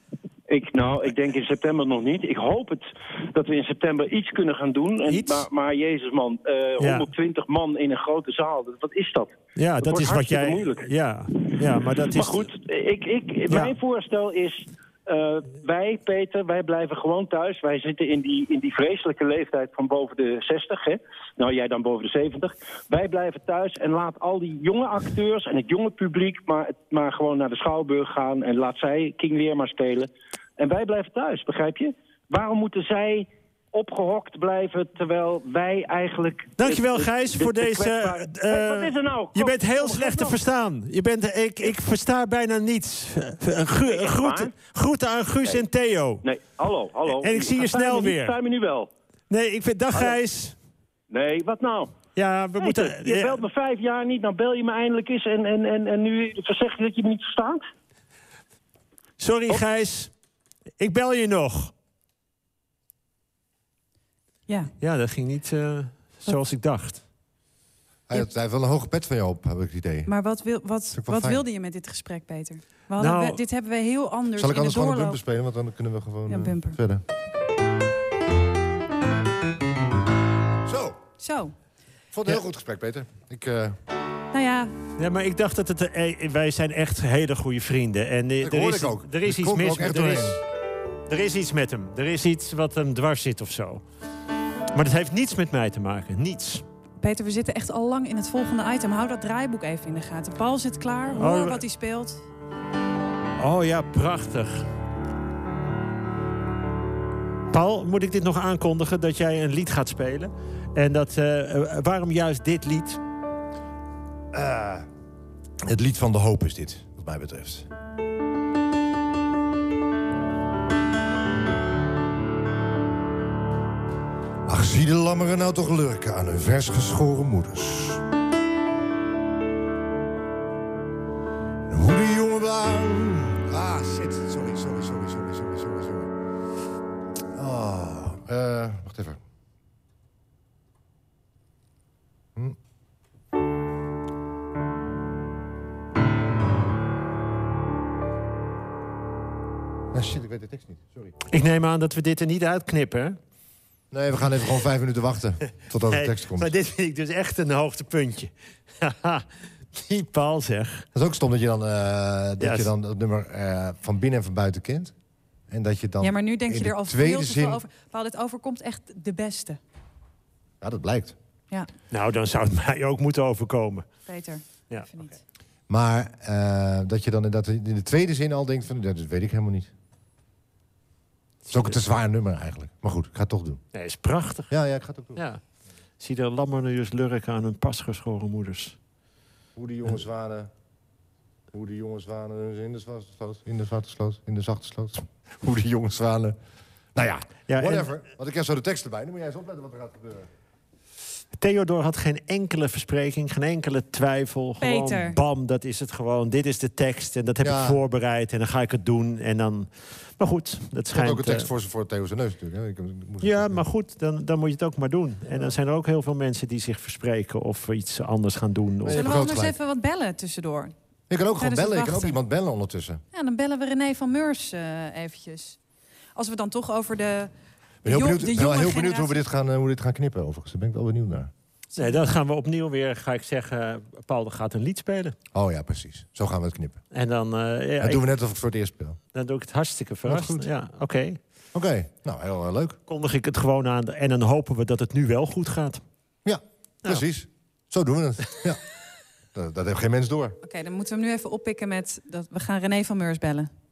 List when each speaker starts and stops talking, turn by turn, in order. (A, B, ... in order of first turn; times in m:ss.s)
0:00.5-0:10.9 A
0:05.1-0:05.4 B
0:06.8-0:07.1 B
0:09.6-0:12.5 B
0:12.0-0:40.4 A
0:36.6-0:46.2 B
0:43.8-0:44.5 A
0:46.2-0:48.9 A
0:47.1-0:48.4 B
0:49.3-0:50.5 B
0:51.1-0:52.0 A
0:52.2-0:53.4 B
0:52.6-0:57.6 A
0:59.2-1:00.1 B
1:00.8-1:01.7 B
1:04.8-1:07.0 B
1:08.1-1:10.1 C
1:10.1-1:15.2 D
1:10.9-1:11.4 C
1:13.0-1:13.4 B
1:14.4-1:17.0 C
1:16.3-1:16.8 D
1:20.6-1:21.0 C
1:21.2-1:21.5 D
1:22.1-1:23.8 C
1:24.3-1:24.7 D
1:25.0-1:30.4 B
1:28.4-1:30.4 C
1:31.1-1:33.8 B
1:34.7-1:36.6 B
1:37.0-1:42.2 D
1:41.2-1:41.6 B
1:43.4-1:44.7 B
1:47.5-1:53.0 B
1:54.3-1:54.9 C
1:55.6-1:57.7 C
2:04.4-2:08.0 C
2:11.7-2:16.1 C
2:17.3-2:19.2 C
2:29.9-2:31.1 C
2:31.3-2:33.2 B
2:33.9-2:36.5 C
2:35.8-2:40.8 B
2:40.9-2:44.9 C
2:42.4-2:42.7 B
2:45.5-2:47.6 C
2:46.0-2:49.6 D
2:50.6-2:51.1 C
2:51.9-2:53.8 B
2:54.1-2:55.2 D
2:55.7-2:59.7 C
3:01.5-3:01.8 B
3:01.5-3:03.6 C
3:03.7-3:04.5 B
3:04.5-3:05.2 C
3:05.2-3:05.4 B
3:06.0-3:08.8 B
3:09.6-3:10.5 C
3:11.5-3:16.4 C
3:16.9-3:20.3 C
3:17.5-3:17.9 B
3:21.4-3:31.5 B
3:24.6-3:25.2 D
3:27.4-3:27.8 C
3:30.9-3:33.6 C
3:33.2-3:39.2 B
3:38.8-3:39.5 C
3:38.9-3:40.7 D
3:41.1-3:43.0 C
3:41.4-3:42.2 D
3:43.1-3:45.6 D
3:46.2-3:47.3 D
3:47.8-3:51.3 C
3:47.8-3:49.2 D
3:51.8-3:52.0 D
3:51.8-3:55.2 B
3:55.3-3:56.8 C
3:56.9-3:58.0 B
3:57.8-3:59.0 C
3:59.1-4:01.2 B
4:00.0-4:00.5 C
4:01.5-4:02.8 C
4:02.9-4:05.8 B
4:06.2-4:08.6 C
4:09.3-4:10.4 C
4:10.4-4:13.5 D